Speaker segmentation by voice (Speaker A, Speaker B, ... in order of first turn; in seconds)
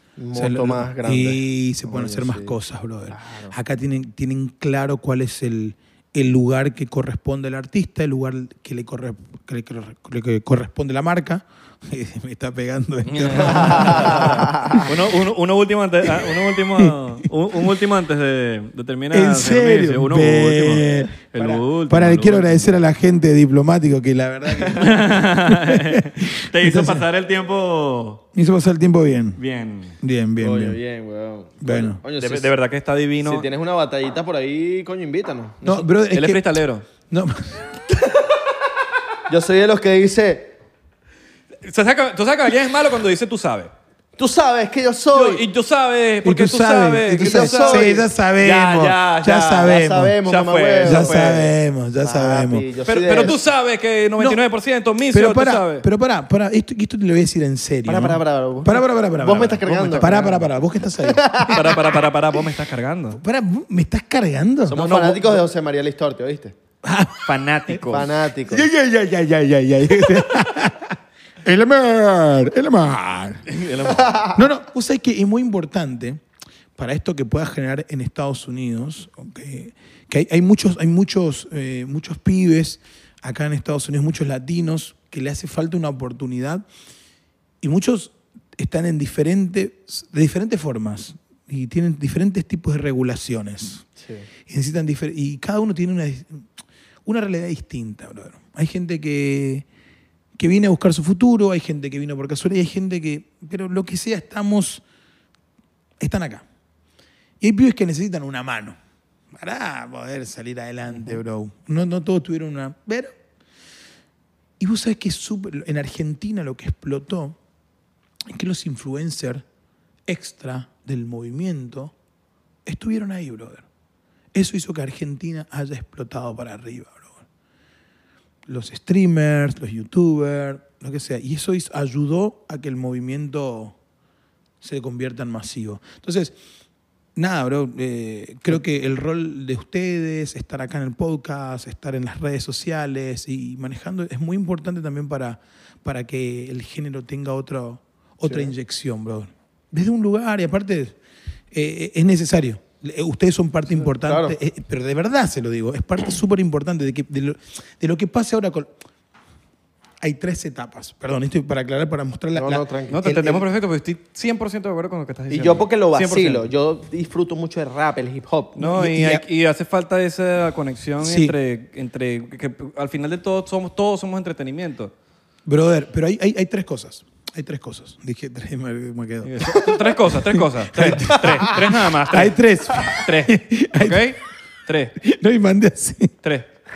Speaker A: 0.2-2.5, 3.1-3.5, 13.5-14.8, 21.4-21.6, 30.4-32.5, 33.2-35.9, 39.3-40.5, 44.2-45.4, 47.1-51.5, 52.0-53.4, 57.9-60.3, 61.0-61.8, 64.7-66.5, 67.9-68.7, 73.9-74.4, 94.0-94.3, 148.2-148.5, 153.7-154.3, 162.3-163.4, 165.3-168.6, 179.6-179.9
Speaker B: 0.3-14.9, 16.2-16.9, 19.1-21.2, 21.9-27.0, 28.3-29.4, 30.0-30.8, 31.6-32.0, 35.6-36.4, 37.1-37.6, 46.2-50.2, 50.8-52.7, 54.2-54.4, 55.1-61.6, 63.1-64.8, 66.8-67.3, 68.5-73.5, 74.3-76.2, 76.8-86.6, 87.6-93.8, 94.5-96.5, 97.0-99.7, 100.4-104.8, 106.0-106.4, 107.4-108.8, 109.3-113.1, 114.6-117.3, 118.3-119.4, 120.1-121.9, 122.7-123.6, 124.3-127.1, 128.5-133.8, 134.6-136.3, 137.2-151.0, 151.5-158.8, 160.0-162.7, 168.6-169.2, 171.0-171.3, 175.5-179.7, 180.3-184.0, 185.0-186.1
Speaker C: 13.1-22.8, 24.6-28.2, 29.4-30.0, 32.2-33.5, 36.1-36.9, 41.6-43.7, 45.1-48.7, 49.5-49.7, 50.2-51.5, 52.9-55.9, 59.4-60.5, 61.5-63.2, 64.7-65.3, 67.2-68.1, 73.5-74.2, 162.9-166.5, 168.6-174.9, 179.2-184.9, 186.2-186.5